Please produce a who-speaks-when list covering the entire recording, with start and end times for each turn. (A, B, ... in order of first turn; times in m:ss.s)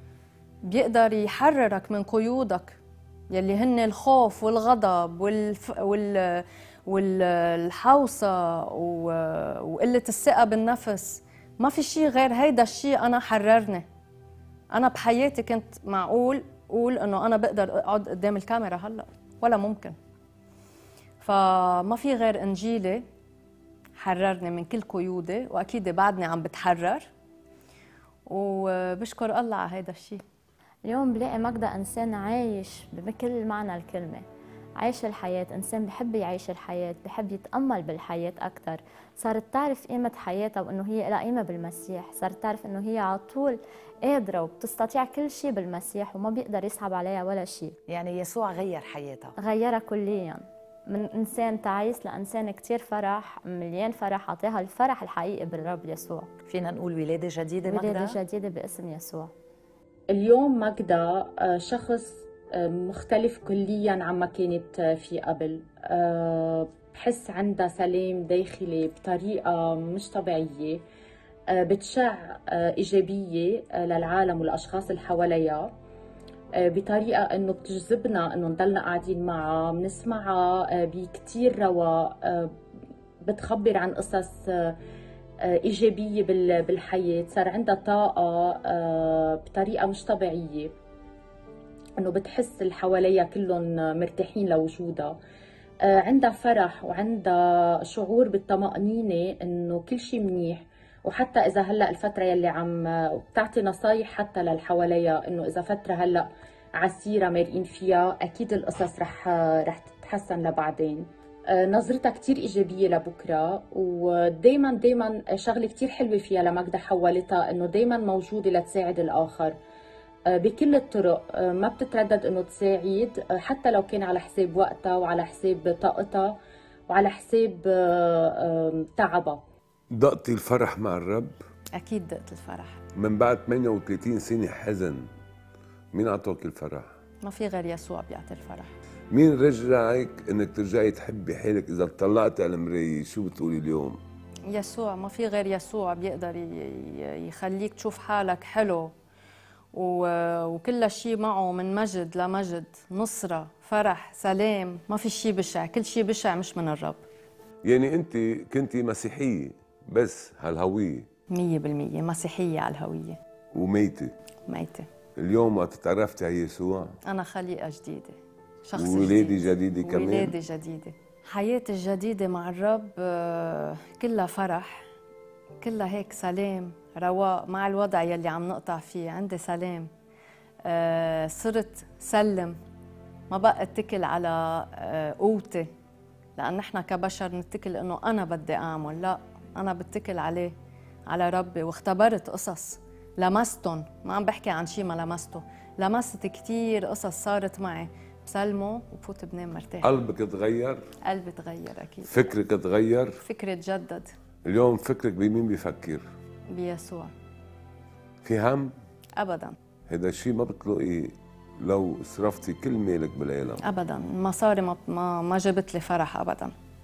0:00.6-0:02.8 A
0:03.3-0:13.8 A
0:14.7-0:20.0 A
0:21.2-0:23.0 A
0:24.0-0:27.1 A
0:28.3-0:30.2 A
0:30.8-0:34.2 B
0:34.8-0:47.8 B
0:47.9-0:49.4 C
0:49.4-0:56.3 B
0:56.5-0:58.2 C
0:57.6-0:59.3 B
1:00.1-1:10.8 D
1:11.5-1:15.7 D
1:16.5-1:22.6 D
1:23.2-1:24.8 D
1:25.4-1:30.8 D
1:32.0-1:35.2 D
1:35.8-1:59.6 D
2:00.3-2:06.4 D
2:06.9-2:09.4 D
2:09.9-2:11.4 E
2:11.8-2:12.8 A
2:13.0-2:15.0 E
2:15.9-2:16.9 E
2:17.2-2:18.7 A
2:19.1-2:24.0 E
2:24.5-2:28.9 A
2:29.7-2:37.0 A
2:37.6-2:41.1 E
2:41.3-2:43.2 A
2:43.5-2:44.1 E
2:44.5-2:44.9 A
2:45.2-2:46.9 E
2:47.1-2:54.9 A
2:48.8-2:50.3 E
2:55.6-2:59.9 A
3:00.6-3:02.6 A
3:03.3-3:05.7 A
3:06.4-3:10.5 A
3:11.1-3:19.9 A
3:19.8-3:20.8 E
3:21.1-3:22.1 A
3:22.0-3:23.2 E
3:23.2-3:24.1 A
3:24.5-3:26.0 E
3:26.5-3:27.1 A
3:28.2-3:28.7 E
3:29.2-3:29.6 A
3:29.9-3:33.6 E
3:33.6-3:36.5 A